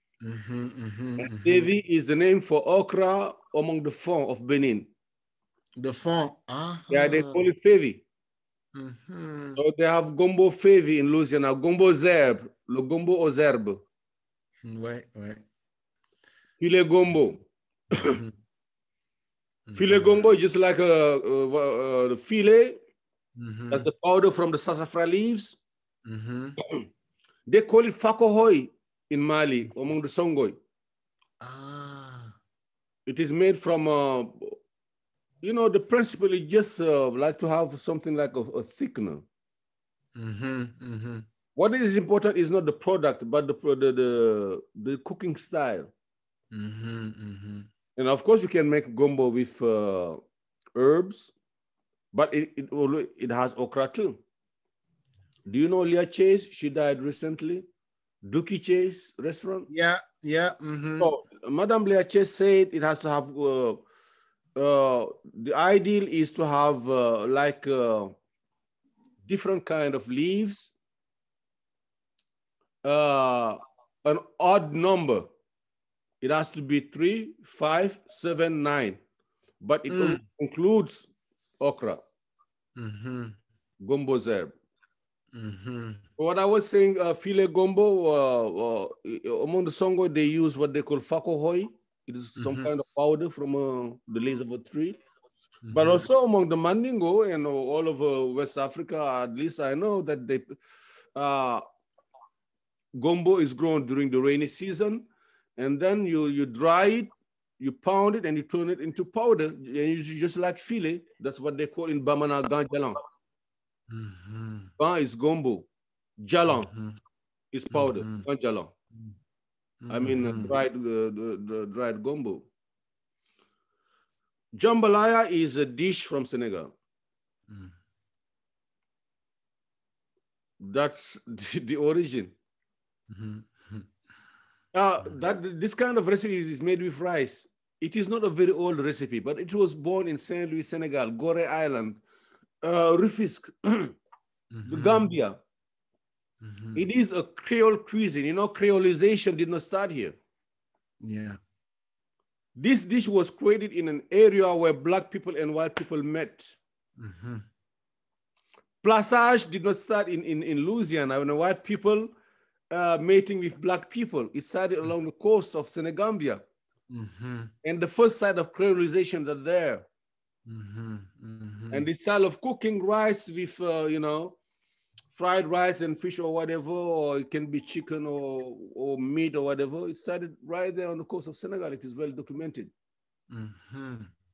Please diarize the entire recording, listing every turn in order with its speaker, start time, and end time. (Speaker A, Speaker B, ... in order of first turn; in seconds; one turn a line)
Speaker A: 0.2-1.7
Speaker B: 1.2-4.9
Speaker A: 5.8-7.5
Speaker B: 6.9-8.0
Speaker A: 8.7-9.6
Speaker B: 9.6-13.8
Speaker A: 14.7-15.4
Speaker B: 16.6-18.2
Speaker A: 18.0-18.4
Speaker A: 19.7-20.2
Speaker B: 19.8-22.8
Speaker A: 23.4-23.9
Speaker B: 23.7-25.6
Speaker A: 26.1-26.6
Speaker B: 27.5-30.6
Speaker A: 31.4-32.4
Speaker B: 33.1-34.6
Speaker B: 35.4-39.2
Speaker A: 40.2-41.3
Speaker B: 41.5-45.9
Speaker A: 46.5-47.7
Speaker B: 48.0-50.2
Speaker B: 50.8-51.3
Speaker B: 52.1-54.2
Speaker B: 55.5-57.7
Speaker B: 58.2-59.7
Speaker A: 59.7-61.1
Speaker B: 61.0-63.8
Speaker B: 64.6-68.2
Speaker B: 69.2-70.8
Speaker B: 72.8-75.3
Speaker B: 76.2-79.0
Speaker B: 79.6-81.1
Speaker A: 79.9-80.2
Speaker B: 81.6-82.0
Speaker A: 82.8-83.4
Speaker B: 83.8-84.5
Speaker A: 85.3-86.0
Speaker B: 86.2-95.0
Speaker A: 92.4-92.7
Speaker A: 95.6-96.0
Speaker B: 95.7-100.6
Speaker B: 101.2-101.6
Speaker B: 103.0-113.0
Speaker A: 113.9-114.7
Speaker B: 114.8-115.7
Speaker B: 116.2-116.7
Speaker A: 116.5-117.0
Speaker B: 117.5-118.7
Speaker A: 117.7-118.3
Speaker A: 119.8-120.6
Speaker B: 119.9-122.5
Speaker B: 124.6-126.7
Speaker A: 127.5-127.7
Speaker B: 130.6-132.3
Speaker A: 133.1-133.9
Speaker B: 134.7-142.0
Speaker B: 142.6-144.0
Speaker A: 144.5-145.1
Speaker B: 144.7-145.4
Speaker A: 146.4-146.8
Speaker B: 146.8-150.2
Speaker A: 151.0-151.4
Speaker B: 152.6-156.6
Speaker A: 157.0-157.5
Speaker B: 158.8-162.1
Speaker B: 162.7-166.4
Speaker A: 166.9-167.5
Speaker B: 167.6-169.9
Speaker A: 170.5-171.9
Speaker B: 171.7-174.4
Speaker B: 175.1-182.7
Speaker A: 183.3-184.1